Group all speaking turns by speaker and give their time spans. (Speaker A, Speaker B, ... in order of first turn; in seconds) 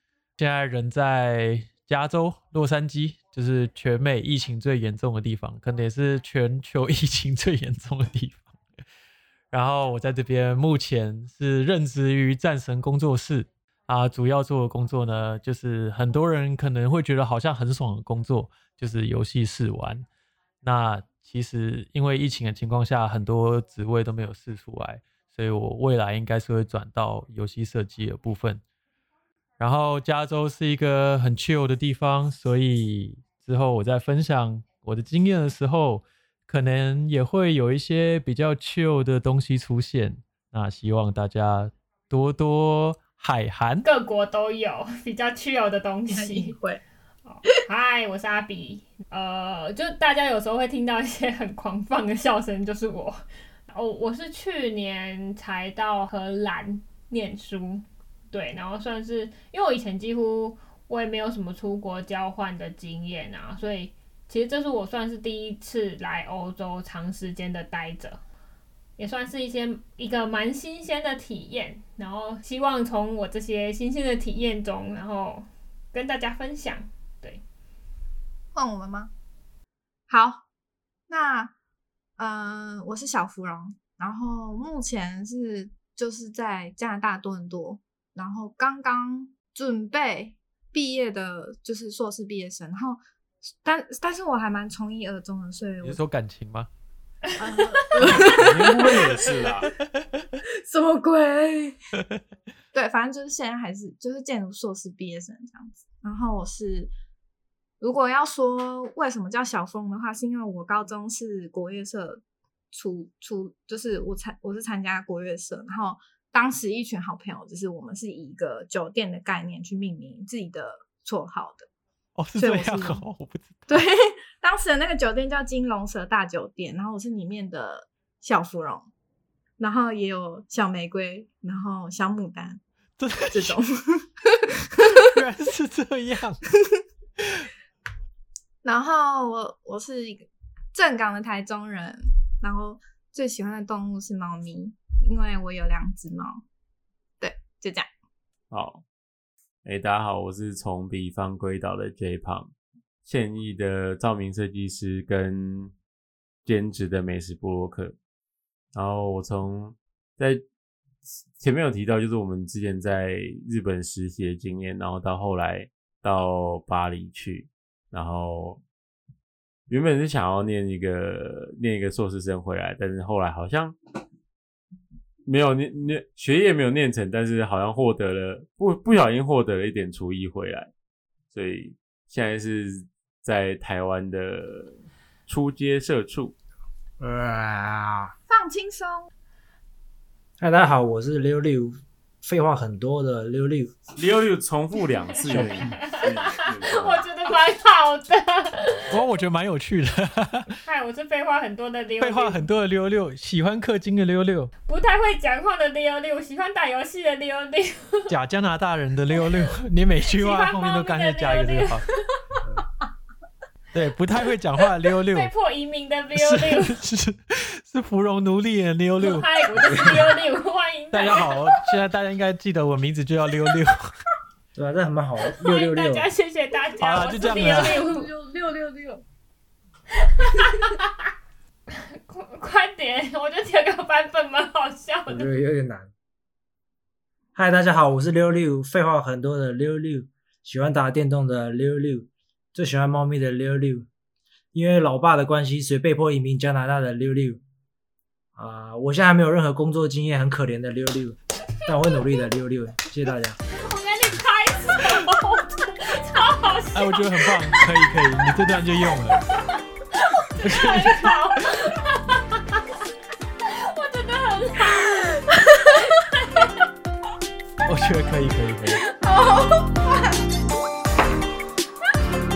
Speaker A: 0.4-8.4, 9.5-20.1, 20.6-28.6, 29.6-43.9, 95.8-96.7, 122.2-123.8, 133.0-133.6, 134.8-136.4, 198.9-200.5, 202.0-204.5, 208.1-211.8, 213.7-215.3, 216.2-219.3, 220.9-223.9, 226.8-227.8, 256.7-259.2, 260.4-261.2, 267.6-268.8
Speaker B: 43.8-46.5, 47.2-68.2, 69.0-77.4, 195.3-196.1, 196.6-198.8, 200.6-202.4, 204.7-208.1, 210.1-211.9, 215.1-216.8, 219.0-221.3, 225.4-228.1, 230.2-230.8, 231.7-235.3, 253.5-257.9, 260.0-262.2, 263.4-266.3
Speaker C: 46.1-46.8, 78.5-79.1, 80.1-80.4, 81.1-81.5, 82.2-93.0, 93.6-96.0, 97.4-99.6, 100.6-101.8, 102.7-106.9, 107.8-121.7, 122.4-123.0, 123.7-128.9, 129.6-132.6, 133.3-134.4, 138.6-146.4, 147.2-147.9, 188.3-189.1, 227.2-229.0, 268.9-270.2
Speaker D: 98.0-99.7, 148.5-148.8, 149.7-152.5, 153.1-155.7, 156.4-157.9, 158.8-160.4, 161.1-168.6, 169.7-173.8, 175.2-180.7, 181.3-186.3, 193.9-197.0
Speaker E: 187.0-188.1, 190.4-193.7, 224.6-226.1, 235.1-235.9, 237.3-243.9, 244.5-247.4, 248.3-253.4